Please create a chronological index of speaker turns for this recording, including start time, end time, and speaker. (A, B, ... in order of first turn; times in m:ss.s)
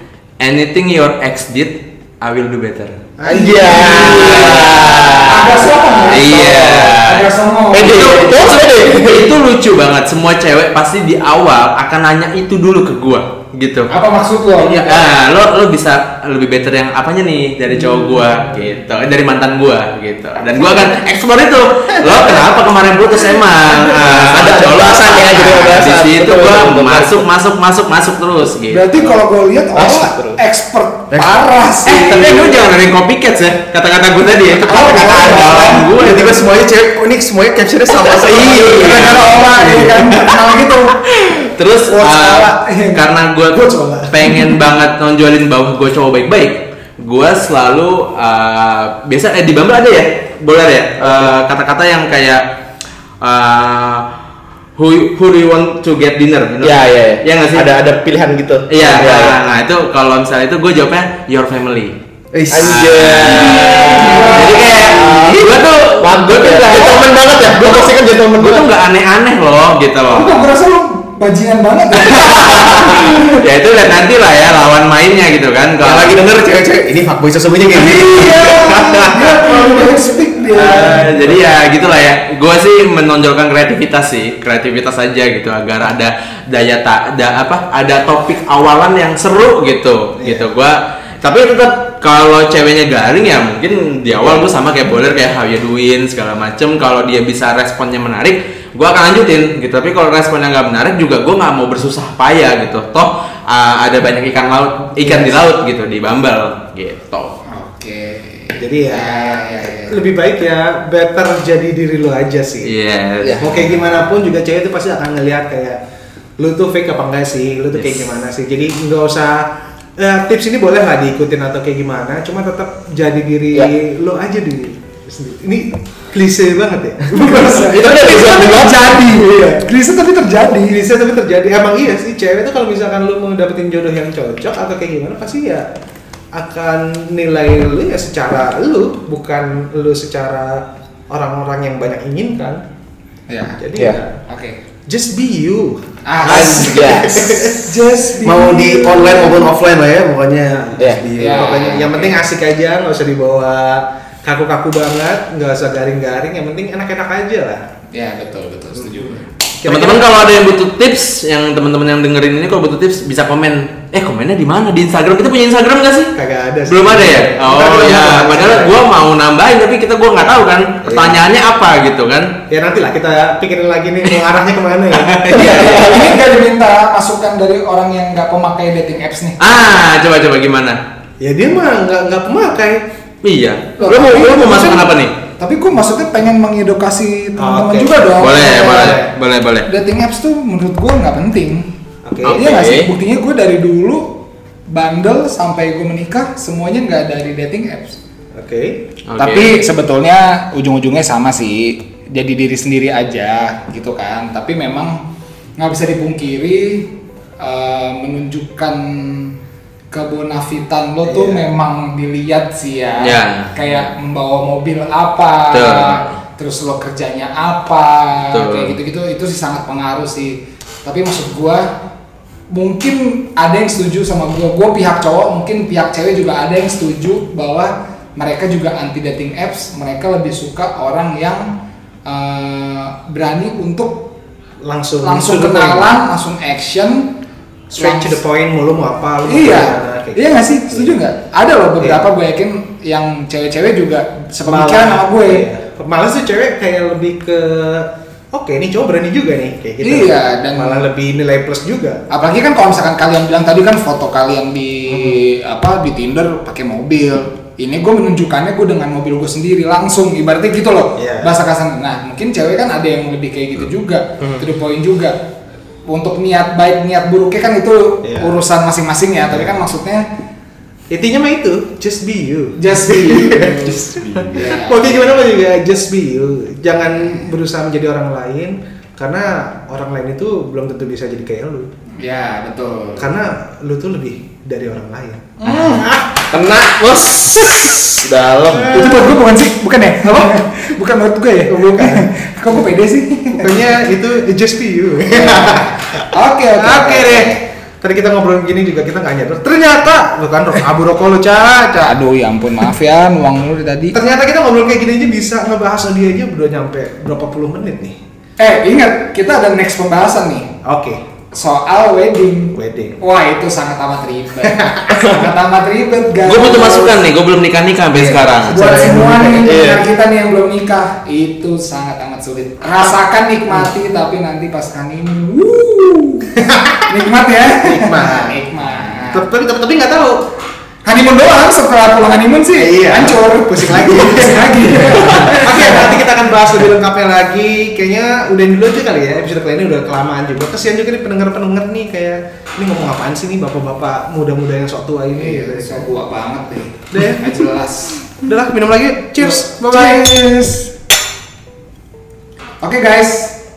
0:00.4-0:03.1 A
0:03.2-0:04.5 B
0:03.2-0:05.7 C
0:03.5-0:04.7 D
0:03.7-0:13.9 A
0:05.3-0:08.3 D
0:07.7-0:09.3 C
0:13.9-0:15.1 D
0:14.6-0:29.2 A
0:24.0-0:27.2 C
0:28.7-0:32.6 D
0:29.8-0:30.4 C
0:31.8-0:36.5 A
0:34.5-0:36.0 D
0:35.2-0:39.1 E
0:38.0-0:40.3 A
0:38.4-0:41.0 D
0:41.0-0:52.4 A
0:41.9-0:43.1 D
0:43.5-0:44.1 B
0:53.2-0:54.1 A
0:54.8-0:57.7 A
0:56.6-0:59.4 C
0:58.7-1:02.0 A
1:02.3-1:03.0 E
1:02.5-1:08.6 C
1:02.6-1:10.4 A
1:03.7-1:04.8 D
1:10.1-1:13.4 D
1:12.0-1:16.2 A
1:15.8-1:19.9 E
1:17.7-1:21.2 D
1:20.5-1:47.4 A
1:47.5-1:50.0 D
1:48.5-1:52.7 B
1:52.6-1:53.6 A
1:53.2-1:53.7 D
1:53.3-1:55.8 B
1:56.4-2:08.6 B
2:07.1-2:10.8 D
2:07.5-2:09.6 C
2:10.7-2:15.7 B
2:16.3-2:22.6 B
2:23.3-2:23.6 D
2:23.6-2:24.2 B
2:24.3-2:24.6 D
2:24.9-2:27.8 B
2:26.0-2:29.5 D
2:26.2-2:27.3 C
2:28.2-2:31.9 E
2:30.5-2:37.7 B
2:31.1-2:32.1 D
2:37.9-2:39.2 D
2:39.6-2:40.1 B
2:39.6-2:46.1 A
2:46.2-2:48.8 B
2:46.7-2:52.4 A
2:50.8-2:51.2 B
2:52.5-2:56.1 B
2:54.9-2:55.8 A
2:55.4-2:56.0 C
2:55.4-2:59.4 D
2:59.4-3:00.8 A
3:01.2-3:02.8 B
3:03.2-3:05.2 A
3:03.8-3:09.0 D
3:04.5-3:04.8 B
3:07.4-3:09.1 B
3:08.2-3:09.7 A
3:09.7-3:11.7 D
3:12.0-3:12.4 B
3:12.2-3:12.9 A
3:12.2-3:14.2 D
3:14.7-3:18.0 D
3:18.3-3:18.8 B
3:19.1-3:19.6 A
3:19.2-3:25.0 D
3:25.6-3:29.3 D
3:29.9-3:41.7 D
3:31.0-3:31.4 B
3:33.0-3:33.5 A
3:35.5-3:36.1 A
3:38.3-3:38.8 A
3:42.5-3:51.5 D
3:52.0-3:54.1 D
3:54.6-3:55.9 B
3:55.0-3:57.2 D
3:57.7-3:58.2 D
3:57.7-4:00.9 B
3:59.2-4:05.5 D
4:04.4-4:12.0 B
4:09.8-4:10.9 D
4:12.1-4:25.2 D
4:14.9-4:15.2 B
4:21.0-4:21.3 B
4:25.9-4:30.0 D
4:28.0-4:28.3 B
4:30.9-4:41.7 B
4:32.6-4:33.7 D
4:33.5-4:34.4 C
4:34.3-4:35.2 D
4:42.0-4:43.1 D
4:43.0-4:46.2 B
4:45.4-4:46.0 D
4:46.3-4:49.1 C
4:48.4-4:49.2 B
4:48.7-4:53.8 D
4:50.0-4:50.4 B
4:51.5-4:52.1 B
4:53.3-5:02.0 B
4:55.0-4:57.4 D
5:01.8-5:04.0 D
5:03.9-5:08.0 B
5:08.4-5:10.5 D
5:10.6-5:11.0 B
5:11.3-5:17.0 D
5:12.5-5:13.0 B
5:14.4-5:15.0 B
5:16.2-5:18.6 A
5:17.9-5:26.3 D
5:18.5-5:19.5 E
5:19.4-5:19.8 C
5:26.4-5:26.9 B
5:26.9-5:29.3 D
5:27.6-5:28.4 B
5:29.1-5:30.2 B
5:30.8-5:36.0 D
5:32.5-5:45.8 B
5:45.2-5:48.1 D
5:46.9-5:47.5 B
5:48.2-5:50.7 B
5:49.2-5:50.6 D
5:52.6-5:53.3 D